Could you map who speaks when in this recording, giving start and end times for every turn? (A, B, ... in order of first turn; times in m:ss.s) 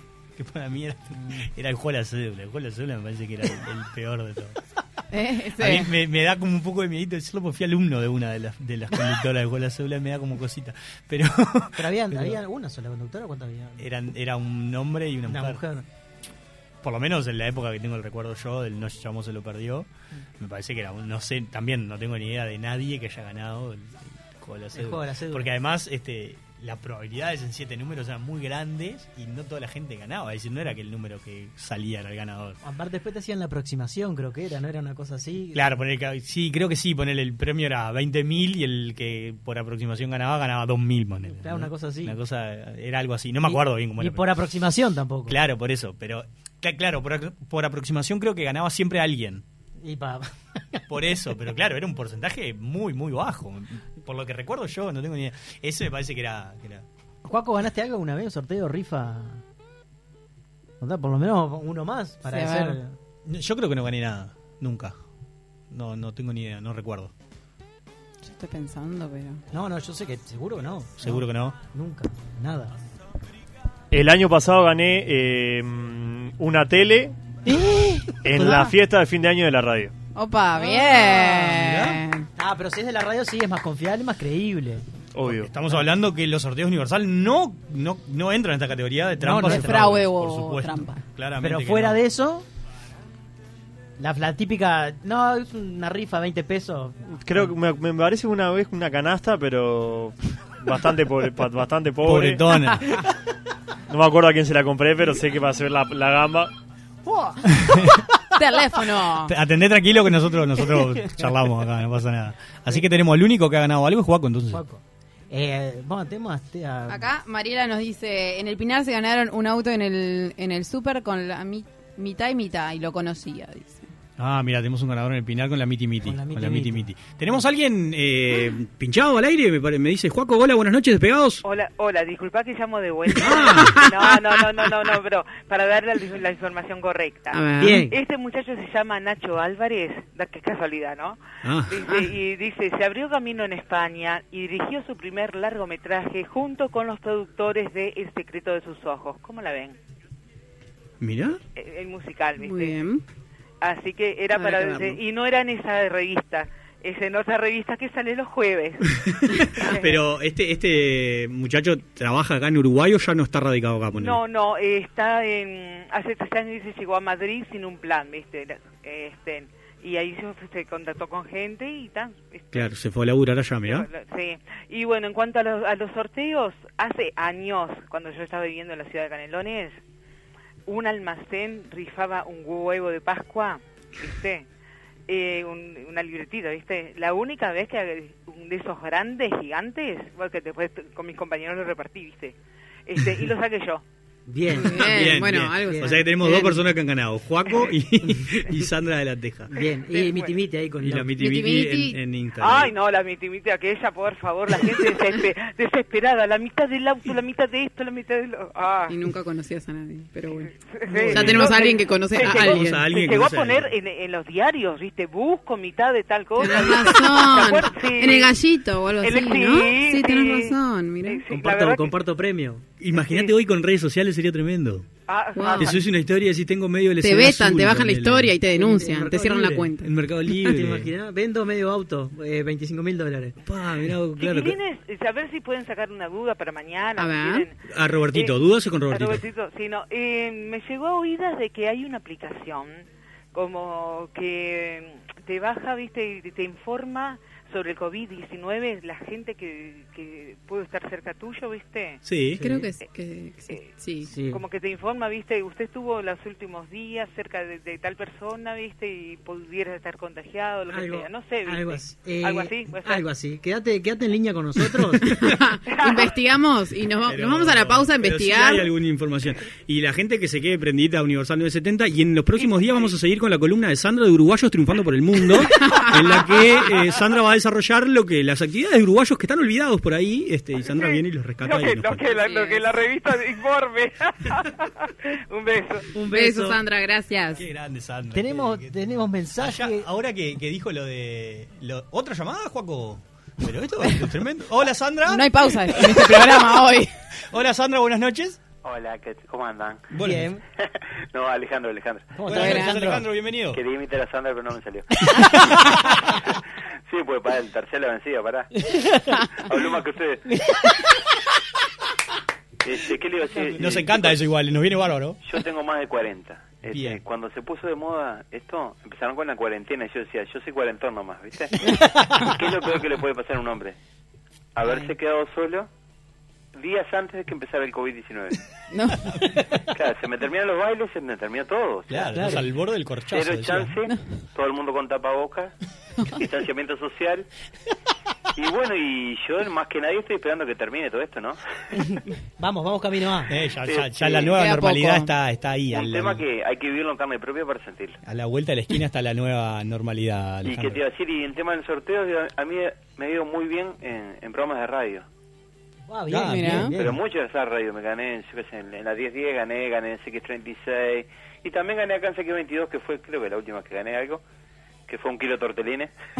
0:00.4-0:04.6 A
0:01.2-0:01.4 B
0:05.1-0:05.9 C
0:05.6-0:12.4 A
0:11.8-0:13.8 B
0:13.8-0:15.6 A
0:15.3-0:15.8 B
0:16.8-0:19.9 A
0:20.4-0:32.6 A
0:24.7-0:25.5 B
0:32.6-0:35.6 B
0:35.5-0:44.4 A
0:41.2-0:42.2 B
0:43.4-0:45.4 B
0:45.3-0:49.4 A
0:49.8-0:50.8 B
0:50.9-0:56.8 A
0:57.2-0:59.4 B
1:00.8-1:02.9 B
1:02.2-1:02.8 C
1:03.2-1:04.9 A
1:05.7-1:07.1 A
1:08.2-1:09.4 C
1:09.5-1:12.7 B
1:11.0-1:11.6 A
1:13.9-1:17.1 D
1:17.4-1:18.7 B
1:18.2-1:19.9 D
1:20.1-1:22.2 C
1:20.7-1:22.0 A
1:22.4-1:24.8 B
1:25.1-1:25.5 D
1:25.2-1:32.0 A
1:29.2-1:30.0 B
1:29.4-1:31.0 C
1:31.4-1:32.4 B
1:34.0-1:37.6 B
1:37.2-1:42.4 D
1:42.0-1:43.0 A
1:43.9-1:46.5 D
1:47.1-1:47.4 B
1:47.5-1:48.0 A
1:48.3-1:49.3 C
1:49.2-1:54.6 A
1:54.5-1:57.1 B
1:56.9-2:03.9 C
2:04.2-2:11.4 A
2:06.0-2:07.4 B
2:11.4-2:29.8 E
2:13.2-2:13.8 A
2:17.3-2:17.8 C
2:17.6-2:18.0 B
2:21.4-2:21.9 A
2:31.0-2:31.4 A
2:31.5-2:32.8 E
2:32.4-2:33.0 C
2:33.6-2:38.8 E
2:34.3-2:35.0 C
2:38.9-2:44.2 A
2:39.5-2:40.0 E
2:43.9-2:52.7 E
2:52.5-2:53.9 A
2:53.6-2:59.8 E
3:00.7-3:04.5 E
3:05.1-3:12.3 E
3:12.9-3:13.8 E
3:14.3-3:16.0 B
3:14.5-3:16.6 C
3:14.7-3:19.5 A
3:19.5-3:21.1 B
3:20.0-3:20.2 E
3:20.8-3:22.7 A
3:21.2-3:22.0 C
3:22.4-3:28.9 E
3:28.9-3:30.6 C
3:30.7-3:38.3 E
3:30.9-3:31.3 B
3:31.1-3:31.5 A
3:31.1-3:32.8 C
3:32.2-3:33.7 A
3:36.4-3:41.2 C
3:39.0-3:40.5 E
3:41.0-3:41.9 E
3:41.3-3:42.7 B
3:42.8-3:44.9 A
3:42.9-3:43.3 E
3:45.1-3:45.8 E
3:45.4-3:45.7 C
3:45.6-3:48.3 A
3:47.0-3:49.9 C
3:48.5-3:49.7 B
3:49.8-3:50.9 A
3:50.3-3:53.4 B
3:53.4-3:54.6 A
3:54.2-3:58.3 E
3:57.0-3:57.4 C
3:57.6-3:59.2 A
3:58.9-4:12.0 E
4:12.0-4:12.4 A
4:12.4-4:12.6 B
4:12.4-4:14.1 C
4:14.0-4:14.4 B
4:14.3-4:23.0 E
4:20.7-4:25.0 B
4:25.1-4:28.7 C
4:25.7-4:26.1 E
4:27.1-4:42.1 A
4:32.4-4:32.9 E
4:35.5-4:35.9 C
4:40.7-4:45.9 E
4:42.1-4:42.6 C
4:45.9-4:46.6 B
4:46.1-4:47.4 C
4:47.4-4:56.4 A
4:48.1-4:49.8 B
4:55.1-4:56.9 C
4:57.3-4:58.4 A
4:58.6-4:59.9 F
4:59.9-5:00.3 A
5:00.0-5:00.4 B
5:00.6-5:02.1 F
5:02.1-5:03.0 B
5:02.2-5:03.6 A
5:02.3-5:02.7 C
5:03.5-5:04.9 F
5:06.9-5:08.5 F
5:09.5-5:10.2 F
5:12.6-5:14.2 F
5:13.3-5:15.2 A
5:15.2-5:21.6 F
5:16.7-5:17.0 A
5:22.1-5:23.8 F
5:24.6-5:25.7 F
5:26.5-5:28.4 F
5:28.7-5:29.1 C
5:29.7-5:32.1 F
5:31.9-5:33.8 A
5:32.1-5:32.4 B
5:33.1-5:35.5 F
5:36.1-5:37.3 F
5:38.4-5:41.4 F
5:41.7-5:43.3 B
5:43.3-5:46.2 A
5:43.7-5:44.3 F
5:44.3-5:45.1 C
5:45.7-5:48.0 F
5:48.0-5:50.8 A
5:50.4-5:55.0 F
5:55.9-5:57.0 B
5:56.1-5:56.9 A
5:56.3-5:56.7 C
5:56.8-6:04.2 F
6:04.9-6:05.9 F